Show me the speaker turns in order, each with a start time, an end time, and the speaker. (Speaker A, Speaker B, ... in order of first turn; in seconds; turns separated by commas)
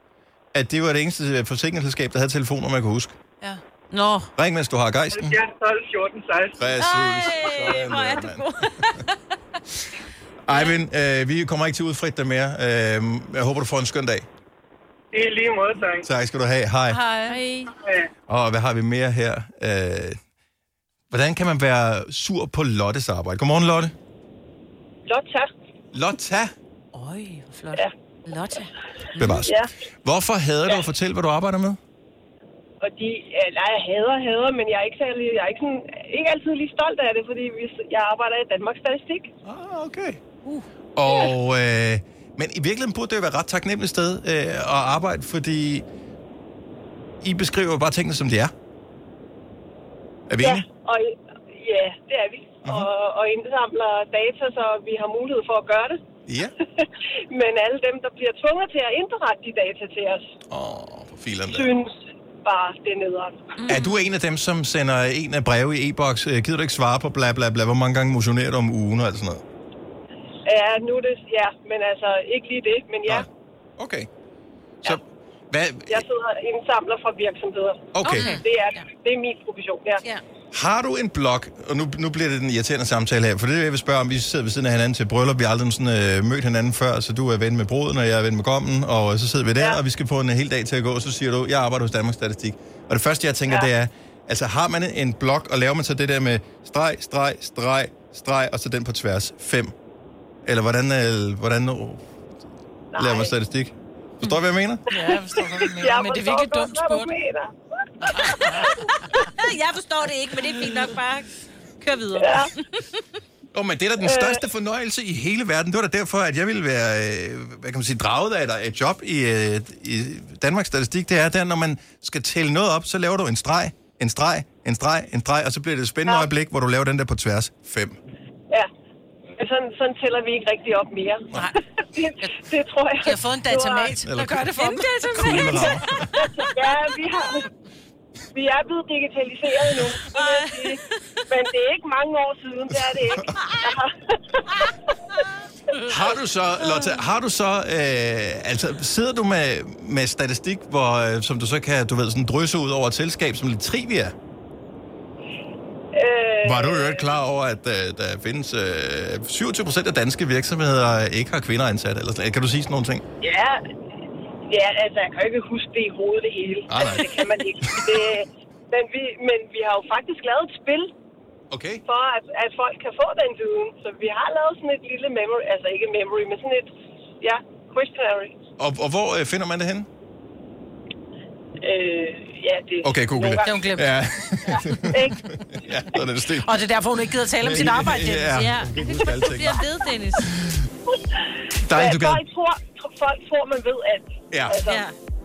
Speaker A: 0.5-3.2, Speaker B: 3.9-4.3, Speaker A: 4.4-5.4, Speaker C: 5.1-6.6, Speaker A: 6.6-9.1, Speaker B: 6.8-9.2, Speaker A: 10.4-14.3, Speaker C: 15.1-16.1, Speaker A: 16.0-17.0, Speaker D: 16.9-17.4, Speaker B: 17.3-17.7, Speaker C: 17.7-18.1, Speaker A: 18.3-20.2, Speaker A: 21.1-23.9, Speaker E: 25.1-25.5, Speaker A: 25.9-26.5, Speaker B: 26.9-29.4, Speaker A: 29.2-31.8, Speaker E: 29.2-29.7, Speaker E: 32.8-39.3, Speaker A: 39.5-40.2, Speaker A: 41.0-45.9, Speaker E: 41.1-41.3, Speaker A: 47.2-48.5, Speaker A: 50.3-50.6, Speaker E: 50.4-56.0, Speaker A: 52.6-52.9, Speaker A: 56.3-56.5, Speaker E: 56.8-60.3, Speaker A: 60.5-61.7, Speaker E: 61.5-63.8, Speaker B: 63.6-64.1, Speaker A: 63.7-69.4, Speaker E: 70.5-73.3, Speaker A: 73.8-74.1, Speaker A: 74.8-76.0, Speaker E: 75.9-80.0, Speaker A: 77.9-78.4, Speaker D: 78.0-78.8, Speaker A: 80.5-99.7, Speaker A: 100.5-102.0, Speaker E: 102.9-103.3, Speaker A: 103.0-104.9, Speaker D: 104.9-107.1, Speaker E: 104.9-109.0, Speaker D: 108.0-108.8, Speaker B: 108.3-113.0, Speaker E: 112.2-112.5, Speaker A: 113.5-128.0, Speaker E: 114.0-114.4, Speaker E: 129.3-134.1, Speaker D: 133.0-135.9, Speaker A: 134.0-134.5, Speaker B: 134.5-136.3, Speaker A: 135.1-136.1, Speaker E: 135.3-137.5, Speaker E: 138.3-144.9, Speaker B: 140.1-141.0, Speaker B: 143.4-143.8, Speaker A: 145.8-154.1, Speaker E: 155.9-157.1, Speaker A: 156.4-163.0, Speaker E: 163.2-163.6, Speaker E: 164.5-170.9, Speaker A: 166.7-167.9, Speaker A: 171.5-171.8, Speaker E: 171.9-178.3, Speaker A: 178.6-179.9, Speaker E: 181.6-183.8, Speaker A: 182.8-186.6, Speaker D: 183.4-184.0, Speaker E: 184.5-185.8, Speaker D: 186.4-188.4, Speaker A: 187.3-190.7, Speaker B: 188.3-190.3, Speaker A: 191.6-192.2, Speaker E: 191.7-194.8, Speaker A: 194.3-194.6, Speaker B: 194.7-194.9